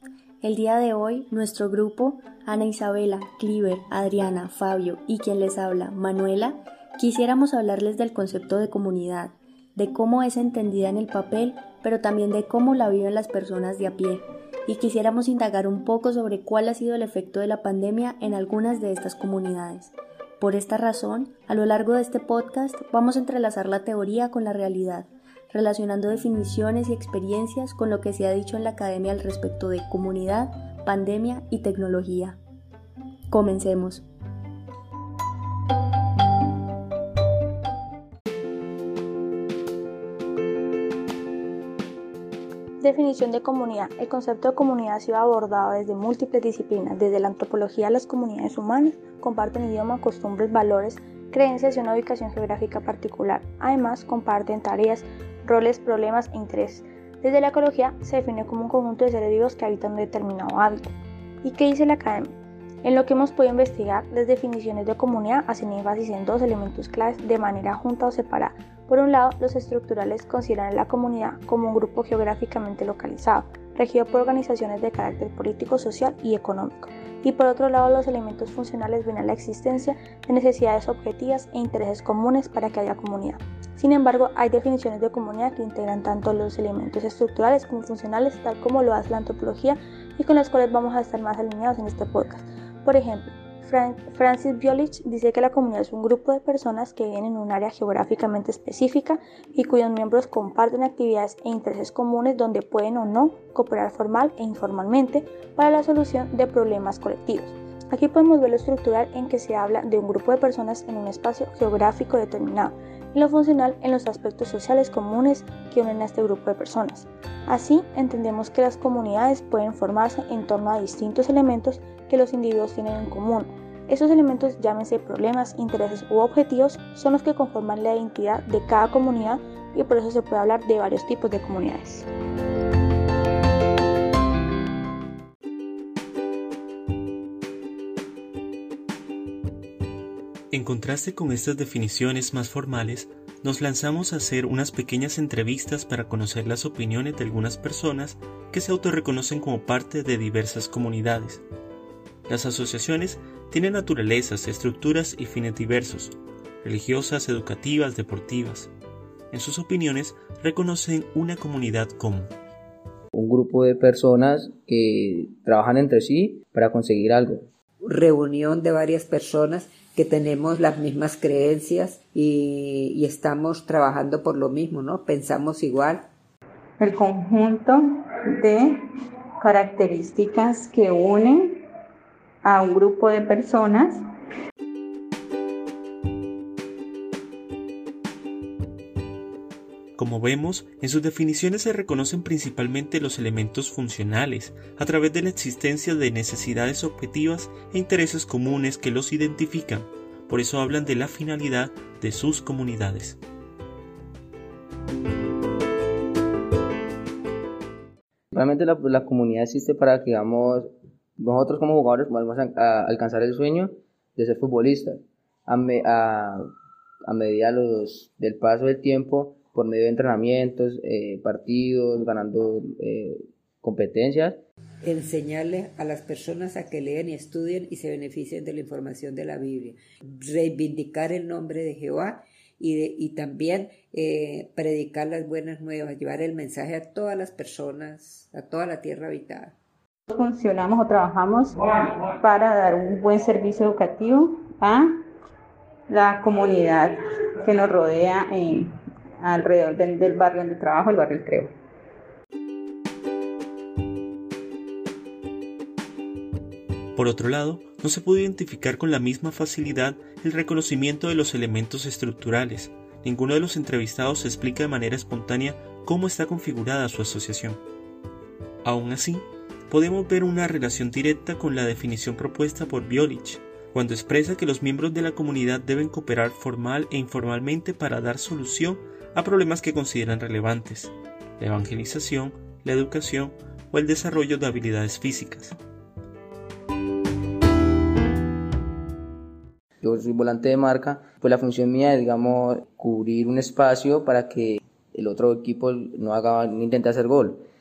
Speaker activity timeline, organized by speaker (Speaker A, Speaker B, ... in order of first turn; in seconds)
Speaker A: 0.4-32.4, 33.3-34.0
Speaker B: 42.8-132.1
Speaker C: 140.5-151.4, 152.3-158.7, 159.3-162.3, 190.0-203.2, 256.9-267.6, 268.6-285.6
Speaker D: 163.1-167.5, 208.3-216.5, 217.1-224.4, 289.8-297.4
Speaker E: 167.8-176.1, 224.8-239.5
Speaker F: 176.8-178.9, 179.4-181.6, 182.4-184.0, 240.1-244.9, 245.9-251.5